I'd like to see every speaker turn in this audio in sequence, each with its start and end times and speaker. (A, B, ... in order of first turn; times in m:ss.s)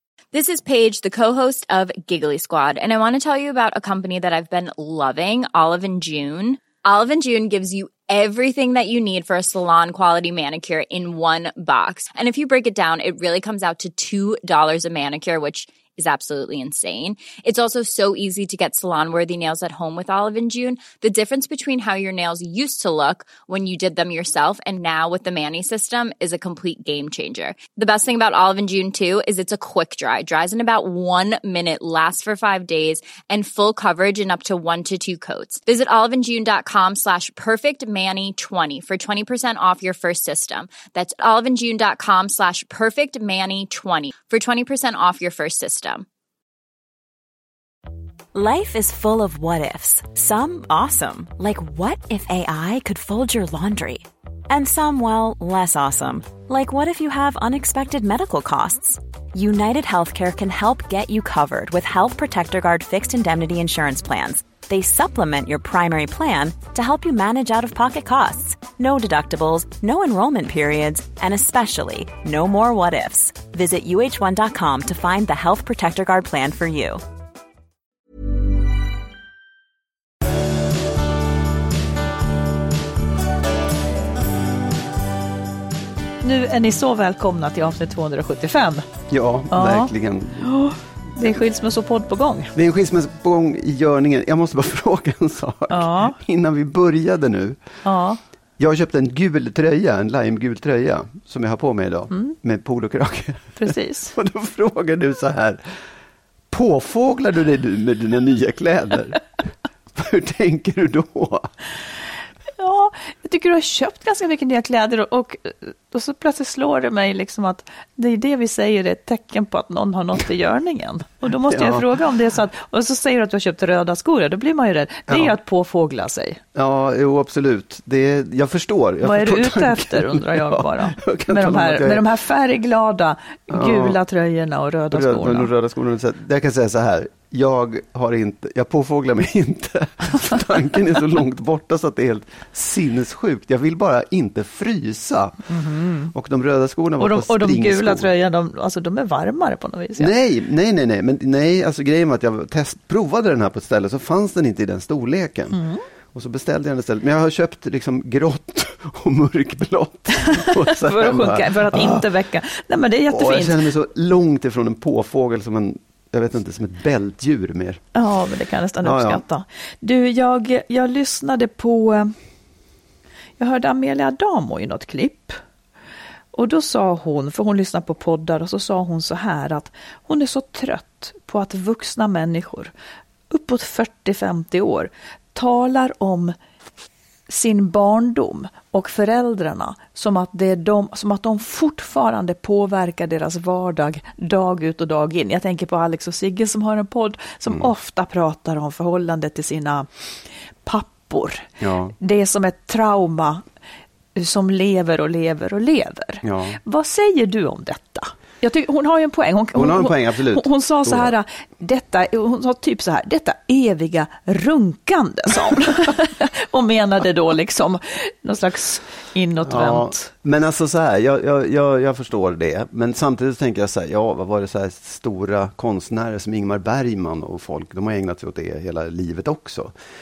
0:00.3-0:46.0 A
0:48.3-1:17.0 B
1:26.2-1:28.9 C
1:29.1-1:30.5 D
1:29.5-1:29.9 C
1:30.4-1:32.5 C
1:32.5-1:37.6 D
1:35.7-1:36.2 C
1:37.8-1:38.2 C
1:38.6-1:45.6 D
1:43.6-1:44.1 C
1:46.5-1:49.2 D
1:50.0-1:51.5 D
1:52.6-2:06.4 C
2:01.5-2:01.9 D
2:05.1-2:05.4 D
2:06.6-2:12.1 D
2:09.0-2:15.5 C
2:13.5-2:14.0 D
2:14.9-2:25.6 D
2:25.5-2:26.1 C
2:26.1-2:28.1 D
2:27.0-2:30.1 C
2:30.0-2:35.6 D
2:35.5-2:35.8 C
2:36.1-2:42.1 D
2:40.3-2:43.6 C
2:43.1-2:47.8 D
2:48.0-2:52.1 C
2:48.8-2:49.2 D
2:53.4-2:55.4 C
2:56.3-3:02.7 C
3:03.3-3:06.4 C
3:07.3-3:19.9 C
3:20.6-3:23.4 C
3:21.6-3:22.0 D
3:24.2-3:40.1 C
3:26.2-3:26.6 D
3:29.6-3:31.1 D
3:39.4-3:49.8 D